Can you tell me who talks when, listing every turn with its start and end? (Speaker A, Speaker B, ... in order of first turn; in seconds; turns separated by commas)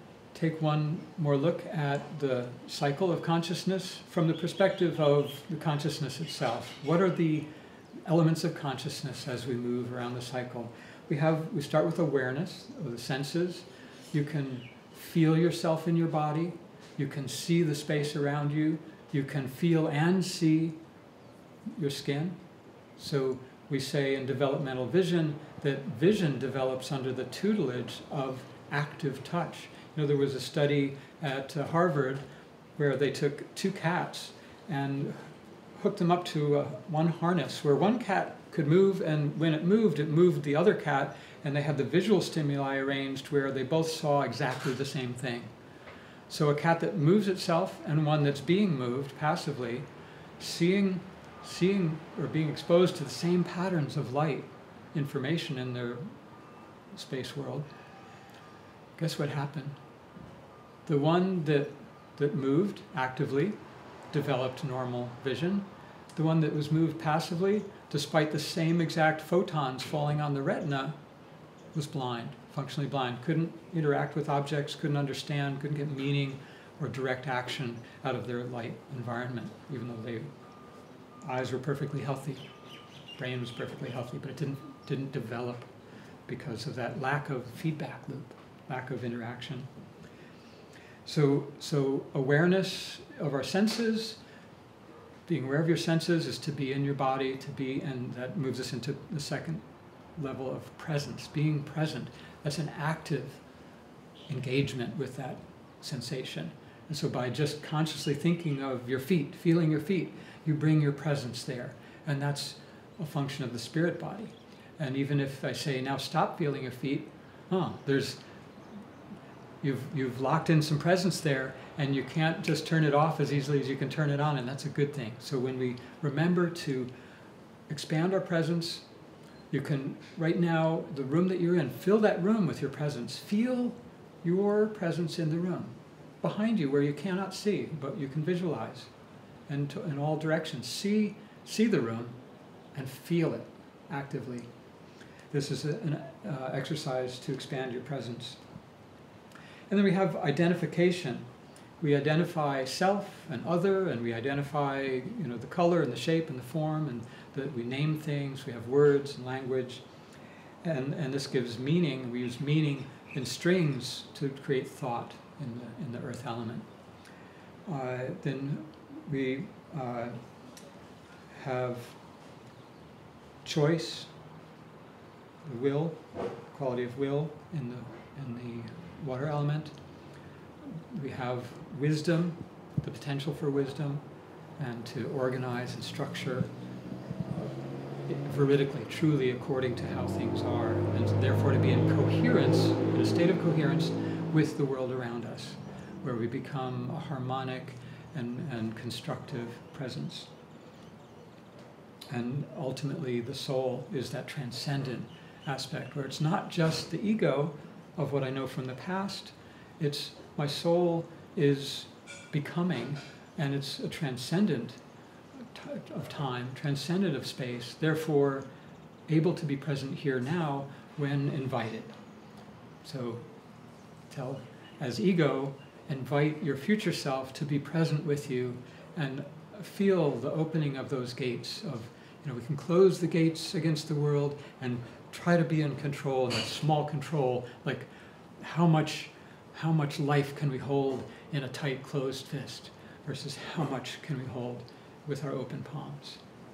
Speaker A: 0.3-7.5, Speaker A: 8.0-20.8, Speaker A: 21.8-22.4, Speaker A: 23.0-32.2, Speaker A: 32.8-45.5, Speaker A: 46.3-49.9, Speaker A: 50.4-56.1, Speaker A: 56.9-57.7, Speaker A: 59.0-59.8, Speaker A: 60.9-63.6, Speaker A: 64.1-71.0, Speaker A: 71.7-80.3, Speaker A: 81.2-82.4, Speaker A: 83.2-85.7, Speaker A: 86.3-89.7, Speaker A: 91.0-94.2, Speaker A: 95.3-99.6, Speaker A: 100.2-103.4, Speaker A: 104.3-118.2, Speaker A: 119.6-126.9, Speaker A: 127.7-128.8, Speaker A: 129.5-138.9, Speaker A: 139.5-142.2, Speaker A: 142.7-144.5, Speaker A: 145.3-148.4, Speaker A: 149.7-151.2, Speaker A: 151.8-159.8, Speaker A: 160.6-166.7, Speaker A: 167.7-170.2, Speaker A: 171.3-172.0, Speaker A: 173.4-174.1, Speaker A: 175.4-179.7, Speaker A: 180.9-184.0, Speaker A: 184.6-186.5, Speaker A: 188.1-200.3, Speaker A: 202.1-214.8, Speaker A: 215.5-218.5, Speaker A: 219.1-222.0, Speaker A: 222.8-223.2, Speaker A: 224.1-246.2